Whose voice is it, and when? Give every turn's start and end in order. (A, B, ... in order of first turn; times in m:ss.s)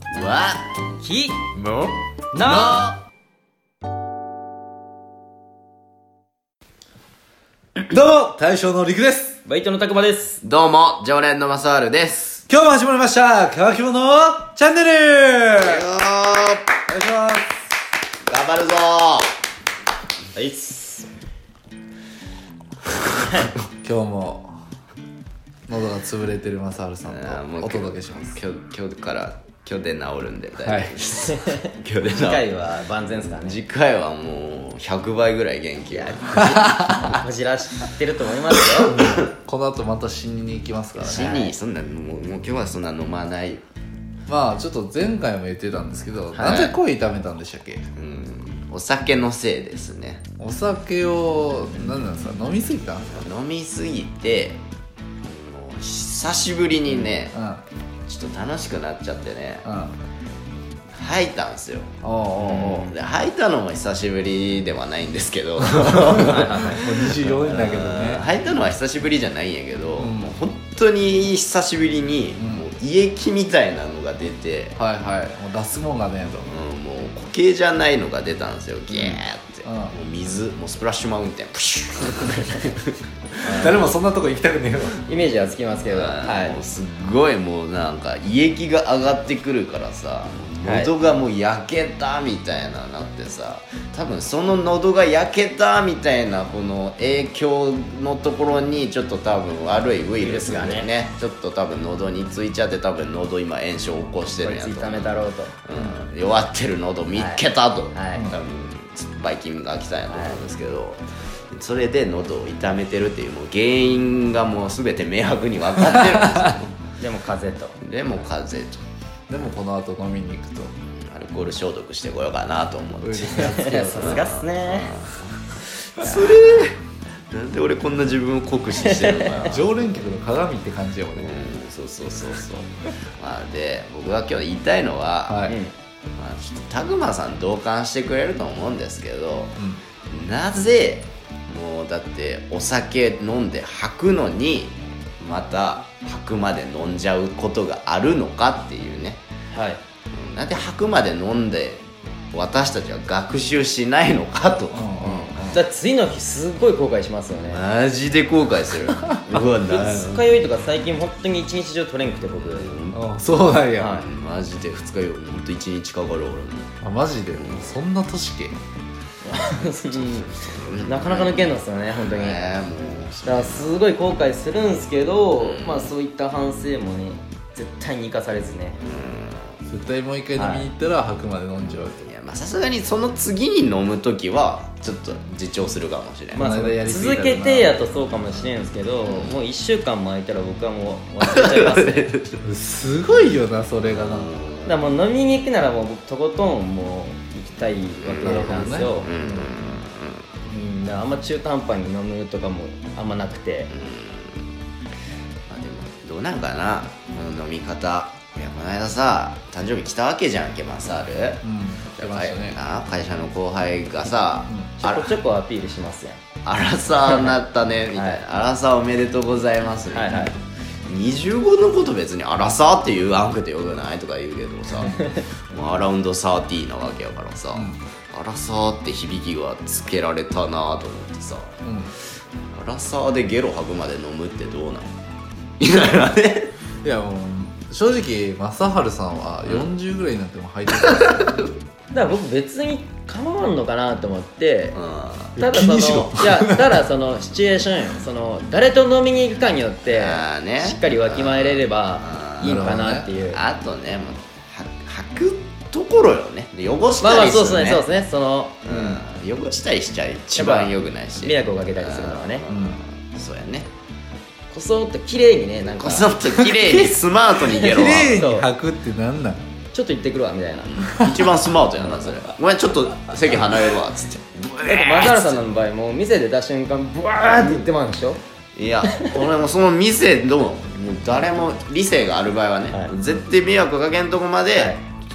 0:00.1-0:00.6 A
0:01.0-0:02.9 B
0:02.4-0:03.0 A
0:07.9-0:09.4 C
0:09.4-0:10.4 B
0:10.4-0:12.5 A
0:12.5-0:15.8 C
0:15.6-0:16.8 A
0:16.9-0:17.5 C
0:18.3-0:19.3 A
0:20.4-0:21.1 B
0:23.8-0:24.6 C
0:25.7-0:28.4 C
0:27.1-0:32.5 A
0:30.6-0:30.9 C
0:31.3-0:31.6 B
0:32.1-0:33.6 B
0:33.2-0:37.2 A
0:35.9-0:39.0 B
0:38.8-0:39.2 A
0:38.9-0:41.3 C
0:41.0-0:43.6 A
0:41.1-0:41.5 B
0:44.3-0:47.9 C
0:46.3-0:46.7 B
0:46.4-0:46.8 A
0:48.0-0:50.2 A
0:50.4-0:53.1 C
0:53.1-0:54.6 A
0:55.2-0:57.3 A
0:57.3-0:57.6 C
0:58.1-0:59.6 A
0:59.6-0:59.9 C
1:00.9-1:14.8 A
1:02.0-1:02.9 C
1:05.6-1:08.2 C
1:06.2-1:06.8 B
1:10.0-1:10.4 C
1:12.4-1:12.7 C
1:14.8-1:16.5 C
1:16.4-1:23.0 A
1:18.9-1:19.2 B
1:19.6-1:20.0 C
1:23.4-1:23.9 B
1:23.5-1:25.0 C
1:25.1-1:26.6 B
1:25.9-1:56.7 A
1:30.6-1:30.9 B
1:40.2-1:40.9 B
1:44.4-1:45.6 B
1:47.2-1:48.3 B
1:50.1-1:50.4 B
1:57.0-1:57.8 B
1:57.8-1:58.8 A
1:59.3-2:00.7 C
2:01.0-2:05.3 A
2:03.0-2:04.3 C
2:03.3-2:04.9 B
2:05.9-2:09.8 A
2:08.8-2:09.5 B
2:09.4-2:11.3 C
2:11.2-2:15.4 A
2:15.3-2:15.6 C
2:15.5-2:15.7 B
2:16.2-2:19.6 A
2:20.1-2:29.2 A
2:29.5-2:29.8 B
2:30.1-2:35.3 A
2:34.7-2:35.6 C
2:35.0-2:37.6 B
2:37.5-2:40.2 A
2:39.7-2:42.7 B
2:42.4-2:43.1 A
2:42.9-2:44.0 C
2:43.8-2:44.0 B
2:43.8-2:46.8 A
2:46.8-2:48.6 C
2:47.3-2:47.8 A
2:49.2-2:52.6 B
2:49.9-2:53.8 A
2:53.2-2:58.8 B
2:55.4-2:55.9 A
2:58.8-2:59.6 A
2:59.7-3:02.1 C
3:00.4-3:00.7 B
3:02.1-3:06.5 A
3:06.3-3:12.1 B
3:06.4-3:07.8 C
3:09.0-3:09.4 A
3:11.2-3:12.4 A
3:12.4-3:14.3 C
3:13.8-3:14.8 A
3:14.6-3:19.5 B
3:18.0-3:20.3 A
3:18.2-3:18.9 C
3:20.5-3:23.7 B
3:23.7-3:24.5 A
3:25.5-3:31.4 A
3:31.4-3:32.6 C
3:32.0-3:35.2 A
3:34.5-3:34.7 C
3:34.8-3:36.2 B
3:36.4-3:51.6 A
3:37.0-3:37.4 B
3:37.9-3:38.2 B
3:39.9-3:40.3 B
3:44.9-3:45.2 B
3:47.5-3:47.8 C
3:51.6-3:51.9 C
3:52.5-3:54.9 A
3:55.6-3:56.5 A
3:56.8-4:01.4 C
4:01.0-4:01.4 A
4:01.9-4:04.8 B
4:04.8-4:05.4 A
4:05.4-4:13.4 B
4:05.4-4:06.7 C
4:09.9-4:17.8 A
4:12.4-4:13.1 C
4:17.0-4:19.0 B
4:18.6-4:23.7 A
4:20.4-4:22.4 B
4:22.5-4:22.8 C
4:24.5-4:26.1 B
4:25.6-4:28.2 A
4:26.3-4:27.0 C
4:27.5-4:28.5 B
4:27.5-4:29.4 C
4:29.7-4:30.7 B
4:30.6-4:35.4 A
4:30.9-4:31.3 C
4:34.6-4:38.2 B
4:37.4-4:37.6 A
4:38.6-4:44.8 A